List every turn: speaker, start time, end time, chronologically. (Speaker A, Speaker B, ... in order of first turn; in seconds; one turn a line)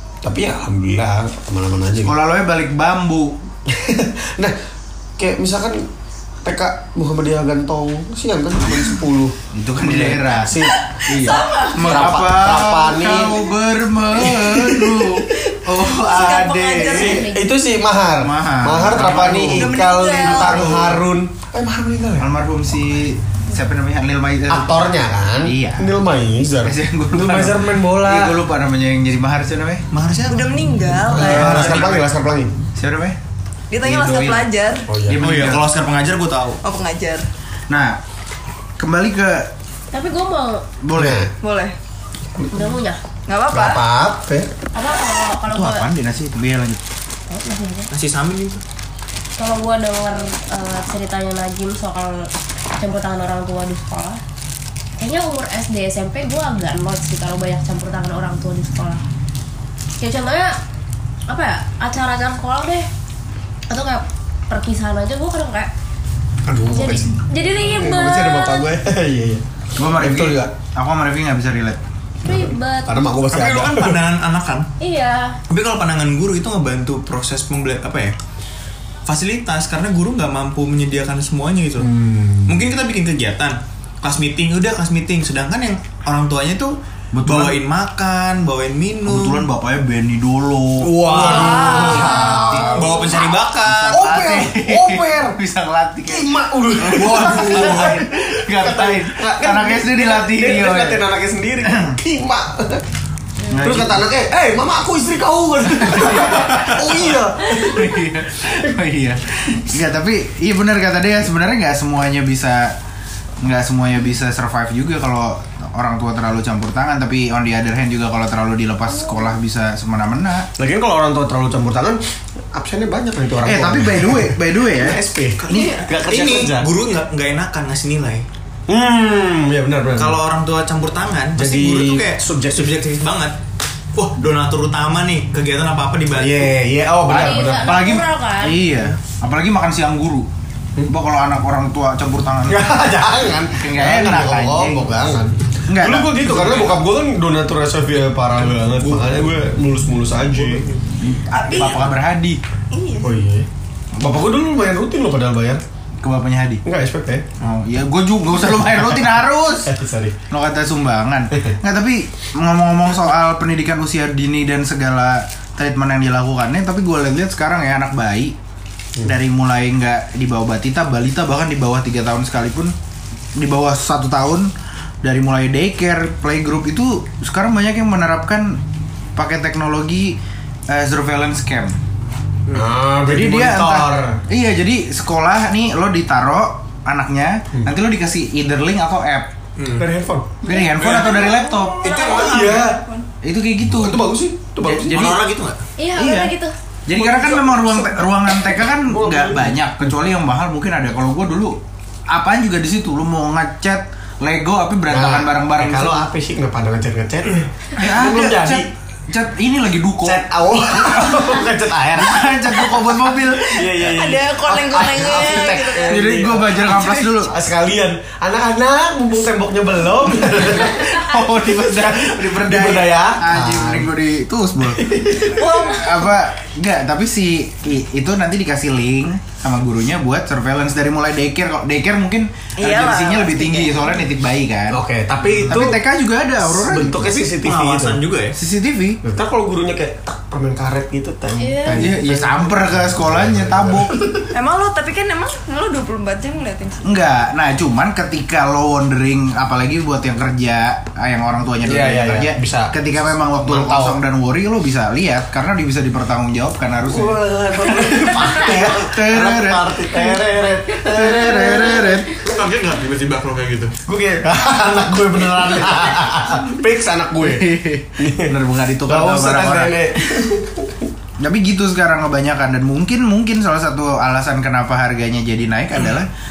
Speaker A: 0.2-2.1
Speaker B: 2.0-3.4
Speaker A: 3.7-4.5
Speaker A: 5.2-5.9
Speaker A: 6.4-13.3
Speaker B: 9.5-10.5
Speaker B: 11.1-17.2
Speaker C: 11.3-11.7
Speaker A: 14.2-15.3
Speaker C: 15.7-17.3
Speaker A: 16.9-22.3
Speaker D: 16.9-17.5
Speaker B: 18.2-21.0
Speaker C: 19.4-20.8
Speaker B: 22.2-25.9
Speaker A: 24.5-28.4
Speaker B: 26.5-29.9
Speaker E: 29.9-30.5
Speaker C: 30.3-31.8
Speaker A: 31.1-32.5
Speaker E: 31.1-32.1
Speaker B: 31.2-32.0
Speaker B: 32.8-33.2
Speaker C: 33.7-34.9
Speaker B: 33.8-34.5
Speaker A: 34.9-35.2
Speaker B: 35.0-35.7
Speaker E: 35.2-36.6
Speaker C: 36.6-37.2
Speaker B: 37.7-38.0
Speaker B: 38.8-39.5
Speaker D: 39.9-40.6
Speaker B: 40.8-41.2
Speaker A: 40.9-41.3
Speaker C: 41.4-41.7
Speaker A: 42.4-42.7
Speaker D: 42.5-43.0
Speaker C: 43.3-43.8
Speaker A: 43.5-44.5
Speaker D: 44.7-45.9
Speaker B: 45.5-46.8
Speaker D: 47.3-47.9
Speaker E: 47.9-48.6
Speaker D: 49.4-54.2
Speaker D: 55.0-59.0
Speaker D: 60.0-60.5
Speaker D: 61.3-62.9
Speaker D: 63.7-65.7
Speaker A: 66.4-70.5
Speaker D: 66.7-68.7
Speaker B: 69.8-71.8
Speaker A: 72.2-74.0
Speaker D: 72.2-73.1
Speaker E: 73.3-74.7
Speaker D: 74.8-75.4
Speaker E: 75.5-78.1
Speaker E: 79.1-81.9
Speaker A: 81.8-82.6
Speaker E: 82.4-89.5
Speaker B: 87.1-87.6
Speaker B: 89.1-101.1
Speaker A: 90.8-93.3
Speaker E: 91.1-94.1
Speaker C: 91.2-92.4
Speaker A: 93.9-95.3
Speaker A: 96.1-102.8
Speaker B: 101.6-102.0
Speaker B: 103.5-104.1
Speaker A: 103.5-108.7
Speaker B: 105.7-112.8
Speaker B: 113.4-120.5
Speaker A: 120.6-122.0
Speaker A: 122.5-126.7
Speaker B: 123.4-125.7
Speaker E: 125.4-128.2
Speaker A: 128.7-130.2
Speaker E: 129.9-133.3
Speaker A: 131.3-132.9
Speaker E: 133.9-136.5
Speaker A: 136.2-137.8
Speaker D: 137.1-138.6
Speaker B: 137.1-140.3
Speaker B: 140.9-142.7
Speaker A: 142.5-150.7
Speaker B: 143.5-145.1
Speaker B: 145.7-146.8
Speaker B: 148.8-149.2
Speaker B: 150.3-152.4
Speaker C: 151.3-151.9
Speaker C: 152.7-153.2
Speaker A: 153.0-153.5
Speaker A: 154.0-155.6
Speaker B: 156.0-156.6
Speaker A: 156.6-157.3
Speaker B: 157.4-159.7
Speaker A: 159.7-160.2
Speaker B: 160.3-168.3
Speaker B: 169.0-172.7
Speaker B: 173.4-174.5
Speaker B: 175.0-178.6
Speaker B: 179.2-180.2
Speaker B: 180.7-181.8
Speaker A: 182.5-184.2
Speaker B: 183.1-189.3
Speaker E: 189.6-189.9
Speaker A: 189.8-190.4
Speaker B: 190.4-191.8
Speaker E: 190.8-192.8
Speaker C: 191.6-193.0
Speaker A: 191.9-192.8
Speaker B: 193.2-194.1
Speaker A: 193.7-195.2
Speaker E: 194.6-195.6
Speaker D: 195.8-196.5
Speaker B: 195.9-196.3
Speaker B: 196.9-201.6
Speaker A: 196.9-198.2
Speaker A: 198.8-199.6
Speaker B: 202.1-206.1
Speaker A: 204.9-208.7
Speaker B: 207.7-211.4
Speaker A: 210.0-223.9
Speaker B: 211.9-213.9
Speaker C: 213.8-216.1
Speaker B: 215.6-217.3
Speaker B: 220.2-224.8
Speaker A: 224.7-225.5
Speaker C: 225.2-225.9
Speaker B: 225.5-237.3
Speaker C: 232.6-233.9
Speaker A: 234.7-235.8
Speaker A: 236.4-238.0
Speaker E: 237.2-238.4
Speaker B: 238.3-239.0
Speaker A: 239.0-244.3
Speaker D: 241.4-241.9
Speaker B: 241.7-244.0
Speaker C: 244.3-246.9
Speaker B: 246.8-257.2
Speaker A: 251.6-252.7
Speaker A: 253.4-254.0
Speaker A: 256.9-262.1
Speaker B: 257.9-260.2
Speaker B: 260.8-262.2
Speaker E: 262.2-263.8
Speaker A: 263.9-268.3
Speaker B: 267.2-269.8
Speaker A: 268.9-270.9
Speaker B: 271.2-276.1